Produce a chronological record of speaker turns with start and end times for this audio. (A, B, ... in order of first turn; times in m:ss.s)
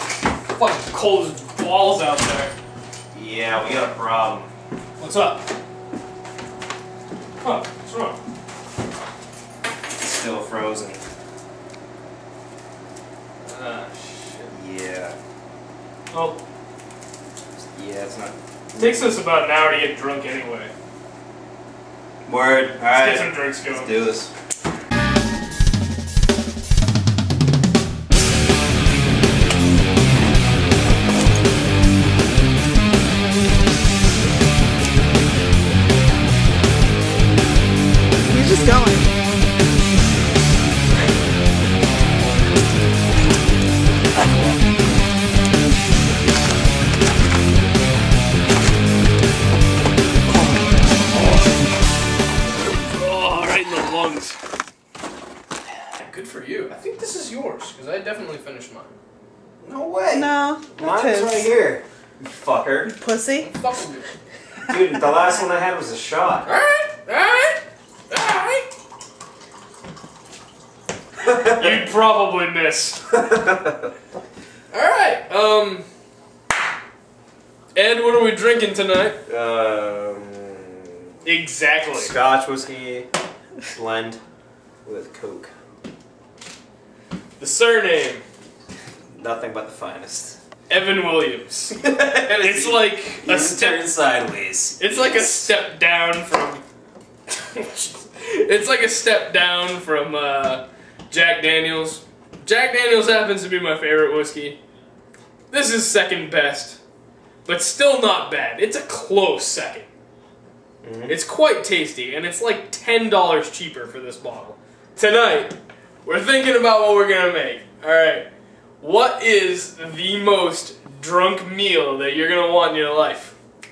0:00.4-0:02.5 A
0:03.1-0:04.5 B
0:05.0-0:05.4 A
0:07.4-0:08.2 A
0:10.0-0:11.0 B
0:13.4-0:14.5 A
0:14.5-0:15.2 B
0:16.1-0:16.4 A
0:17.7-0:19.1 B
0:18.8-0:20.7 A
0:22.3-0:24.3 B
0:22.9-0:23.9 A
0:38.3-0:39.0 C
0:52.6-0:54.4 A
0:55.9-0:58.9 A
0:59.6-1:03.0 B
1:00.1-1:01.5 C
1:02.9-1:03.5 C
1:03.4-1:04.2 A
1:04.7-1:06.5 B
1:06.4-1:08.7 A
1:11.2-1:13.4 A
1:13.3-1:13.9 B
1:14.7-1:15.9 A
1:17.7-1:19.2 A
1:19.3-1:20.9 B
1:21.2-1:22.1 A
1:21.9-1:23.1 B
1:23.7-1:24.2 B
1:24.8-1:25.5 B
1:27.4-1:28.2 A
1:29.2-1:30.4 B
1:30.7-1:34.0 A
1:31.8-1:35.5 B
1:34.8-1:36.6 A
1:37.3-1:44.6 A
1:45.5-1:46.8 A
1:47.4-1:49.9 A
1:50.8-1:51.1 B
1:51.1-1:58.3 A
1:58.8-2:03.4 A